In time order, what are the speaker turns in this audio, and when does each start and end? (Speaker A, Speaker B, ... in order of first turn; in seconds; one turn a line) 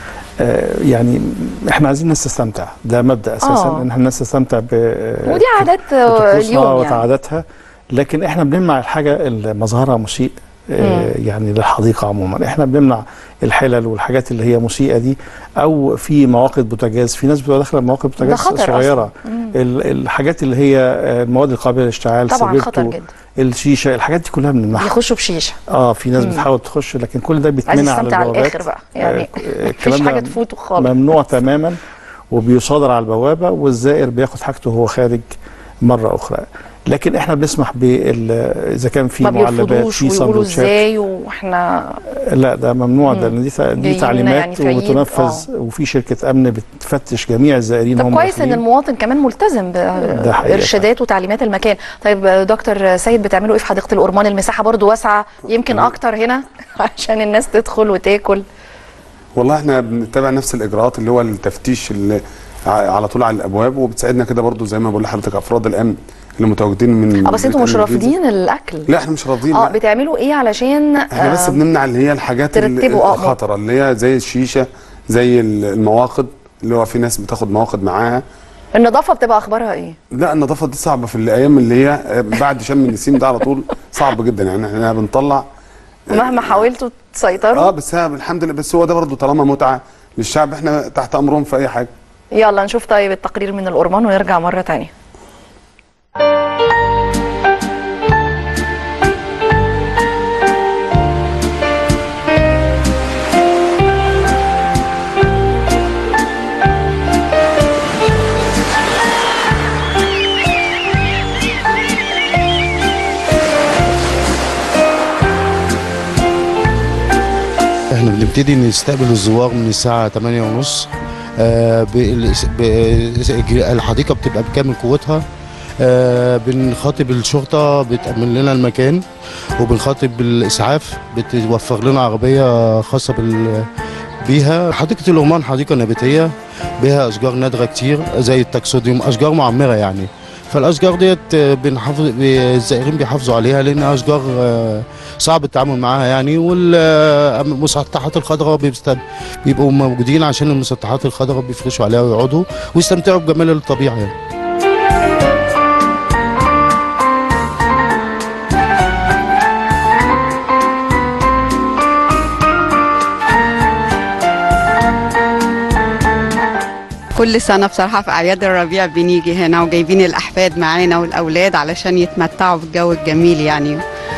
Speaker A: 0.4-24.9
Speaker B: 3.4-3.9
Speaker B: 5.3-7.0
Speaker B: 10.8-11.1
Speaker B: 18.2-19.6
Speaker B: 22.3-23.1
Speaker B: 24.8-25.6
Speaker A: 25.7-31.8
Speaker B: 26.2-26.5
Speaker B: 27.7-31.3
Speaker A: 32.3-35.2
Speaker A: 35.8-40.9
Speaker B: 39.2-42.0
Speaker A: 42.3-48.6
Speaker B: 43.1-45.5
Speaker B: 48.0-58.4
Speaker A: 50.0-50.9
Speaker C: 59.4-68.1
Speaker B: 67.2-68.9
Speaker C: 68.9-69.8
Speaker B: 69.5-71.6
Speaker C: 71.1-78.2
Speaker B: 72.5-73.4
Speaker B: 78.7-80.0
Speaker C: 80.1-85.5
Speaker C: 86.1-86.7
Speaker B: 86.1-87.7
Speaker C: 87.5-91.9
Speaker B: 92.4-94.9
Speaker D: 118.0-120.8
Speaker D: 121.5-125.2
Speaker D: 125.9-129.0
Speaker D: 129.6-133.4
Speaker D: 134.3-136.3
Speaker D: 136.8-146.8
Speaker D: 147.4-149.0
Speaker D: 149.5-154.1
Speaker E: 167.2-173.8